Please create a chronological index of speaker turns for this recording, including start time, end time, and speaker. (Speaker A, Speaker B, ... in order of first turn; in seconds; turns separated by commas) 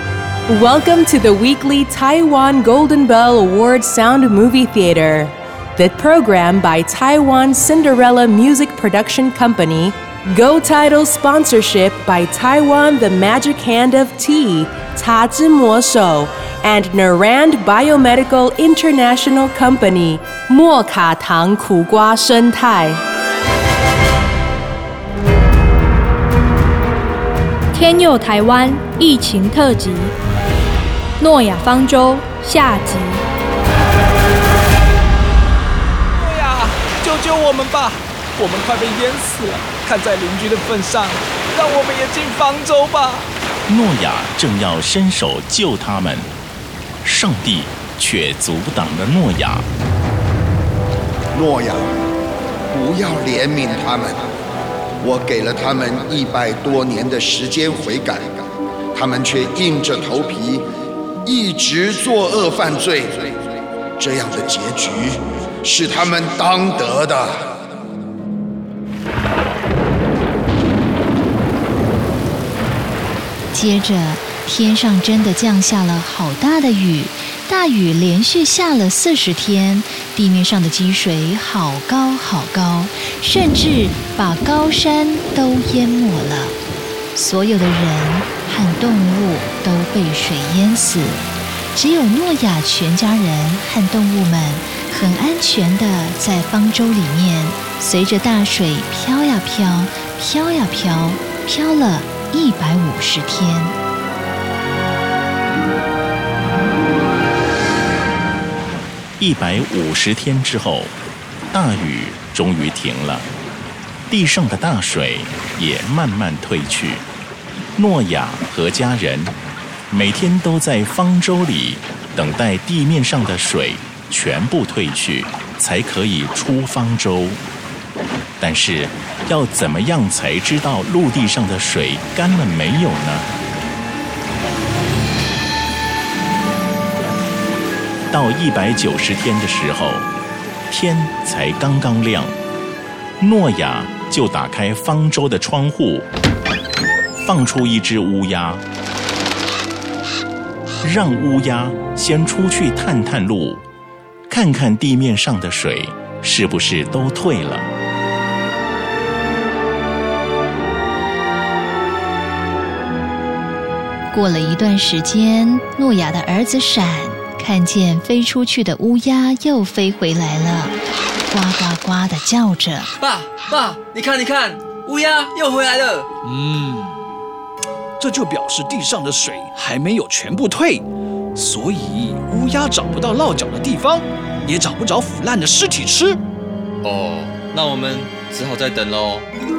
Speaker A: 0.5-23.0, Speaker B: 27.7-30.1, Speaker B: 31.2-33.2, Speaker C: 36.2-43.3, Speaker D: 43.7-46.3, Speaker D: 47.0-49.7, Speaker E: 51.4-51.9, Speaker E: 52.7-54.2, Speaker E: 55.0-58.4, Speaker E: 59.0-60.6, Speaker E: 61.3-63.3, Speaker E: 64.0-67.3, Speaker F: 73.5-86.6, Speaker F: 87.2-103.8, Speaker D: 109.2-110.9, Speaker D: 111.5-113.3, Speaker D: 114.1-117.0, Speaker D: 117.8-119.3, Speaker D: 119.9-127.4, Speaker D: 128.4-133.3, Speaker D: 138.1-140.1, Speaker D: 140.7-142.3, Speaker D: 143.2-146.1, Speaker D: 147.2-148.6, Speaker D: 150.8-153.6, Speaker D: 154.3-157.7, Speaker F: 164.1-170.8, Speaker F: 171.3-172.9, Speaker G: 173.0-176.1, Speaker C: 176.2-176.9, Speaker C: 178.0-180.8, Speaker C: 181.4-186.2, Speaker G: 186.8-189.3